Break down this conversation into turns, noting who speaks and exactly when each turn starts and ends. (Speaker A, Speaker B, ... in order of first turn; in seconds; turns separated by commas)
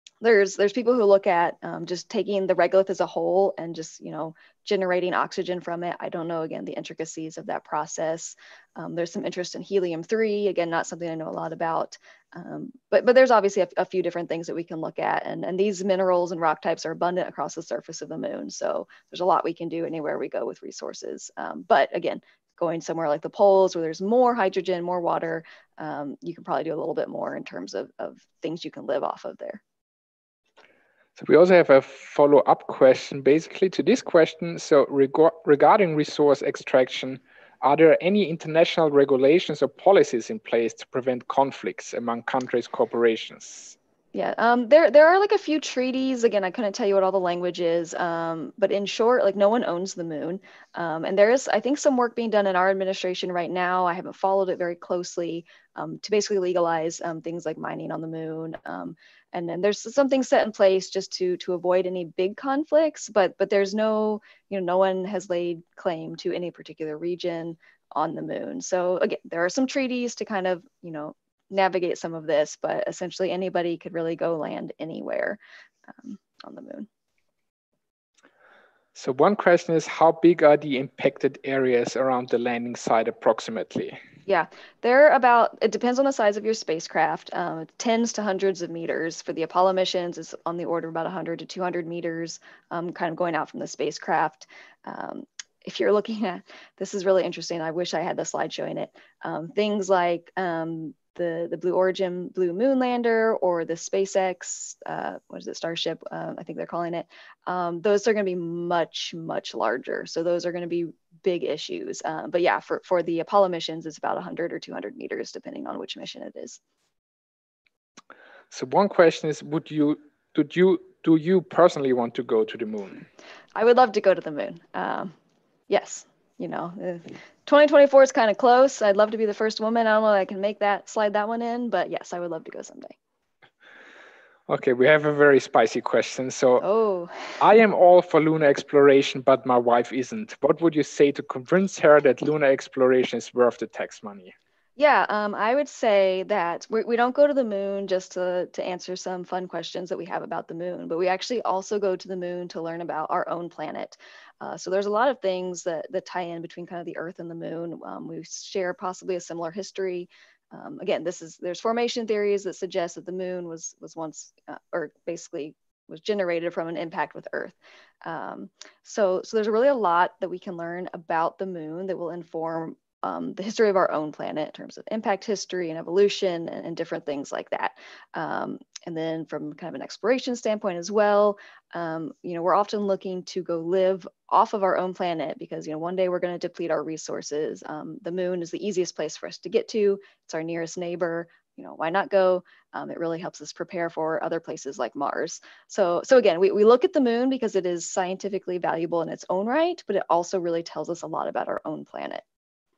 Speaker A: 0.2-29.6, Speaker B: 31.2-43.8, Speaker A: 44.1-75.4, Speaker A: 76.0-76.9, Speaker B: 78.9-84.0, Speaker A: 84.2-116.6, Speaker B: 118.5-123.0, Speaker A: 123.5-125.1, Speaker A: 125.7-132.9, Speaker B: 134.5-136.6, Speaker A: 136.6-137.3, Speaker B: 137.4-144.3, Speaker A: 144.8-202.2